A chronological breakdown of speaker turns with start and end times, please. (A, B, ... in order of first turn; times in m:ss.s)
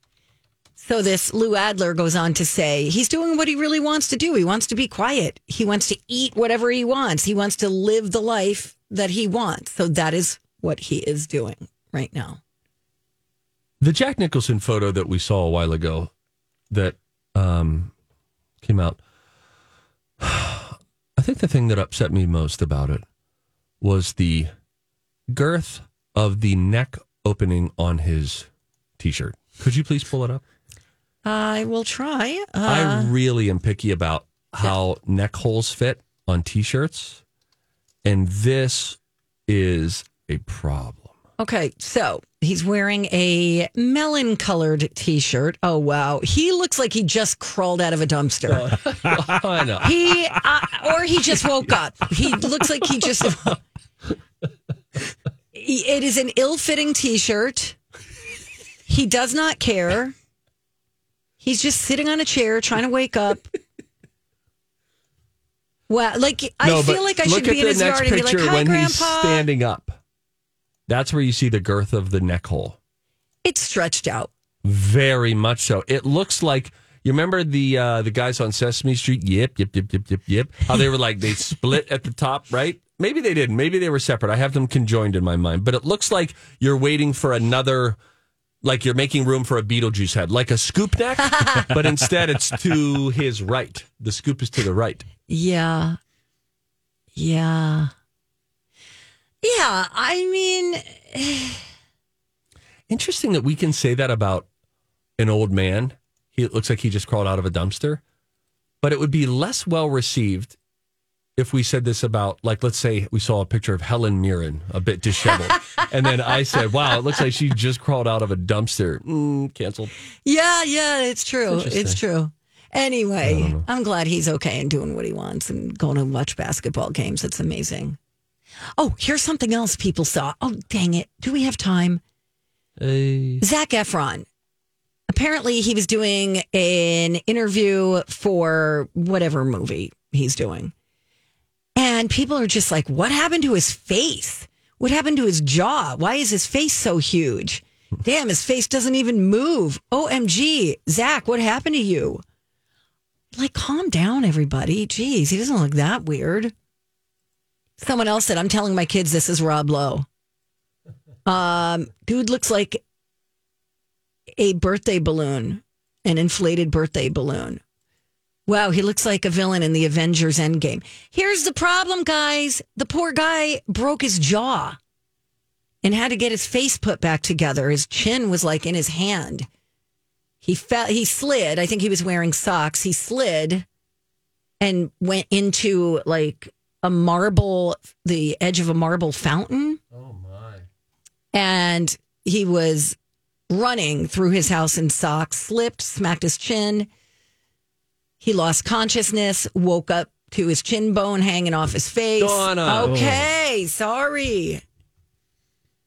0:00.8-0:12.4 A
0:13.8-0:16.1 B
0:16.7-0:17.9 B
0:18.6-0:19.0 B
0:20.2-0:23.0 B
0:23.8-0:24.5 B
0:25.3-0:28.5 B
0:29.0-0:30.4 B
0:31.2-0:33.1 A
0:32.7-0:37.2 B
0:38.0-0:41.1 B
0:41.4-0:48.7 A
0:48.5-0:50.1 B
0:49.8-0:53.6 A
0:55.5-0:57.8 A
0:58.9-1:00.2 A
1:01.4-1:03.5 A
1:05.9-1:09.4 A
1:06.6-1:10.0 B
1:10.9-1:12.8 B
1:13.4-1:14.3 A
1:14.6-1:28.0 B
1:28.6-1:35.0 B
1:31.3-1:31.7 A
1:35.3-1:36.0 A
1:37.2-1:37.9 A
1:39.4-1:41.6 A
1:42.9-1:44.5 B
1:45.2-1:48.0 B
1:48.8-1:50.6 B
1:51.4-1:59.9 B
2:00.2-2:08.0 A
2:01.5-2:02.0 B
2:03.2-2:03.6 B
2:08.8-2:12.0 A
2:12.8-2:13.4 B
2:13.4-2:14.3 A
2:15.1-2:20.7 A
2:21.8-2:32.2 A
2:33.3-2:36.5 A
2:37.8-2:40.1 A
2:41.3-2:42.8 A
2:44.4-2:47.6 A
2:48.5-2:54.8 A
2:55.8-2:59.5 A
3:00.4-3:03.6 A
3:04.6-3:09.8 A
3:09.9-3:10.7 B
3:11.3-3:13.0 A
3:13.5-3:16.9 A
3:18.2-3:24.6 A
3:22.2-3:23.3 B